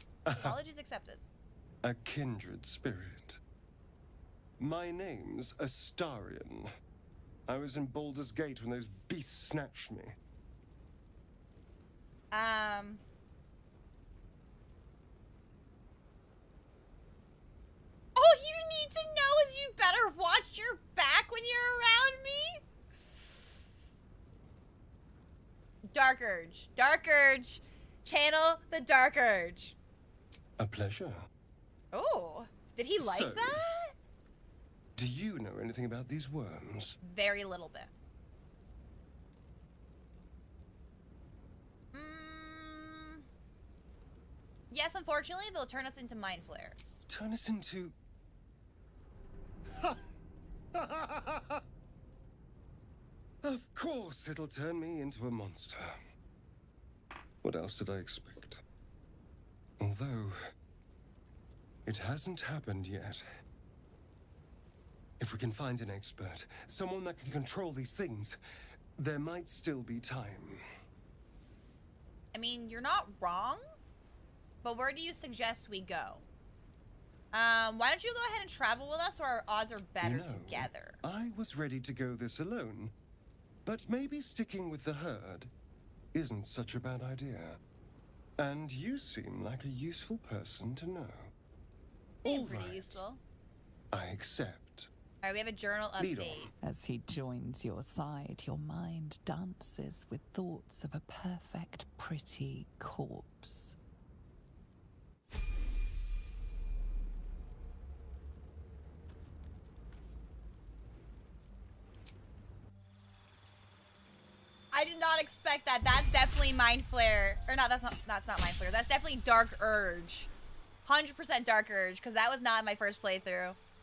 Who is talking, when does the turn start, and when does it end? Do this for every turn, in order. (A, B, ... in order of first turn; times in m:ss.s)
0:00.3-0:00.6 A
0:00.4-0:01.2 B
0:01.8-0:03.4 A
0:04.6-0:06.7 A
0:07.5-0:10.1 A
0:12.3-0:13.0 B
0:18.2-0:22.6 B
0:25.9-0:29.8 B
0:30.6-0:31.3 A
0:31.9-0:33.9 B
0:33.0-0:33.7 A
0:35.0-0:37.0 A
0:37.0-0:37.9 B
0:41.9-0:43.3 B
0:44.7-0:47.0 B
0:47.1-0:47.9 A
0:50.8-0:51.6 A
0:53.4-0:56.0 A
0:57.4-0:58.6 A
0:59.8-1:00.4 A
1:01.9-1:03.2 A
1:05.2-1:08.4 A
1:09.0-1:10.6 A
1:12.3-1:13.6 B
1:14.6-1:16.2 B
1:17.3-1:21.0 B
1:20.0-1:22.9 A
1:23.7-1:25.5 A
1:26.1-1:27.6 A
1:28.4-1:31.3 A
1:32.2-1:33.0 A
1:32.3-1:33.2 B
1:33.9-1:34.9 A
1:35.2-1:36.5 B
1:36.0-1:36.5 A
1:36.6-1:43.8 C
1:54.7-2:00.3 B
2:00.8-2:03.6 B